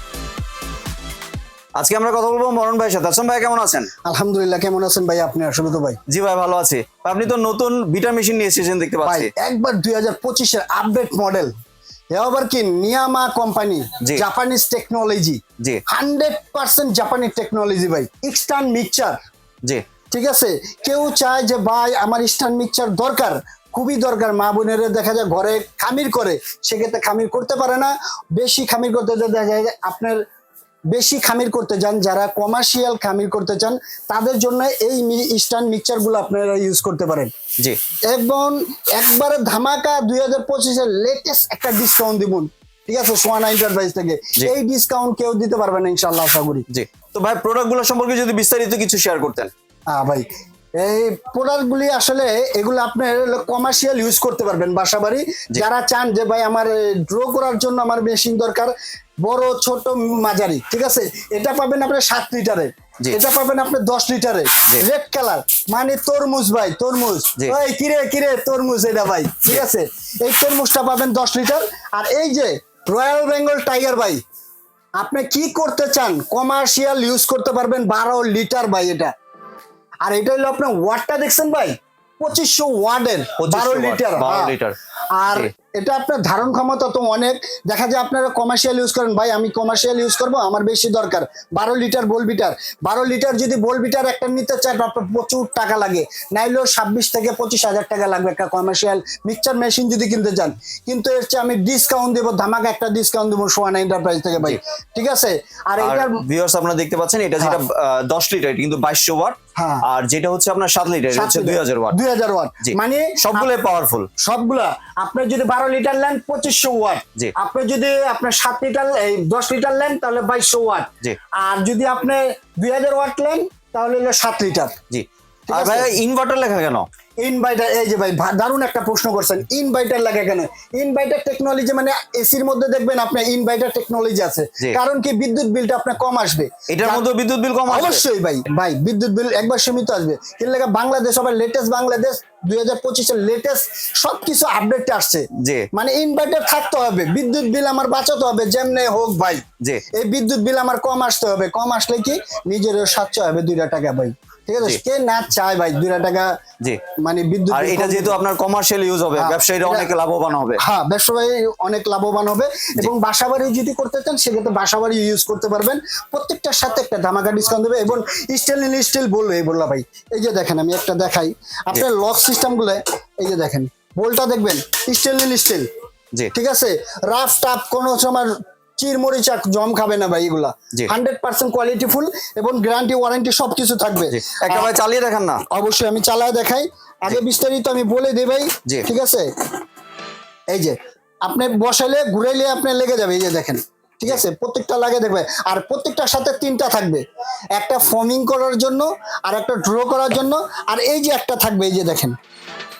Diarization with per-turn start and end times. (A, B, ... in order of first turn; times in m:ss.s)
0:01.8-0:03.9 A
0:04.0-0:06.0 B
0:06.1-0:09.3 A
0:09.0-0:11.5 B
0:12.1-0:19.2 B
0:20.1-0:30.2 B
0:30.9-0:37.3 B
0:38.1-0:46.6 B
0:46.7-0:49.5 A
0:49.9-1:14.2 B
1:15.0-1:19.1 B
1:20.0-1:24.5 B
1:23.4-1:24.7 A
1:25.2-1:46.2 B
1:45.8-1:52.0 A
1:49.6-1:49.8 B
1:51.1-1:53.5 B
1:52.6-1:54.1 A
1:54.2-2:04.7 B
2:04.9-2:06.8 A
2:05.5-2:05.9 B
2:07.2-2:17.1 B
2:16.7-2:18.0 A
2:17.7-2:36.3 B
2:25.3-2:25.7 A
2:37.0-2:38.2 B
2:37.5-2:40.6 A
2:39.2-2:39.9 B
2:40.6-2:55.7 B
2:56.3-3:04.8 B
3:04.1-3:05.4 A
3:05.5-3:09.3 B
3:10.5-3:17.0 B
3:17.6-3:22.2 B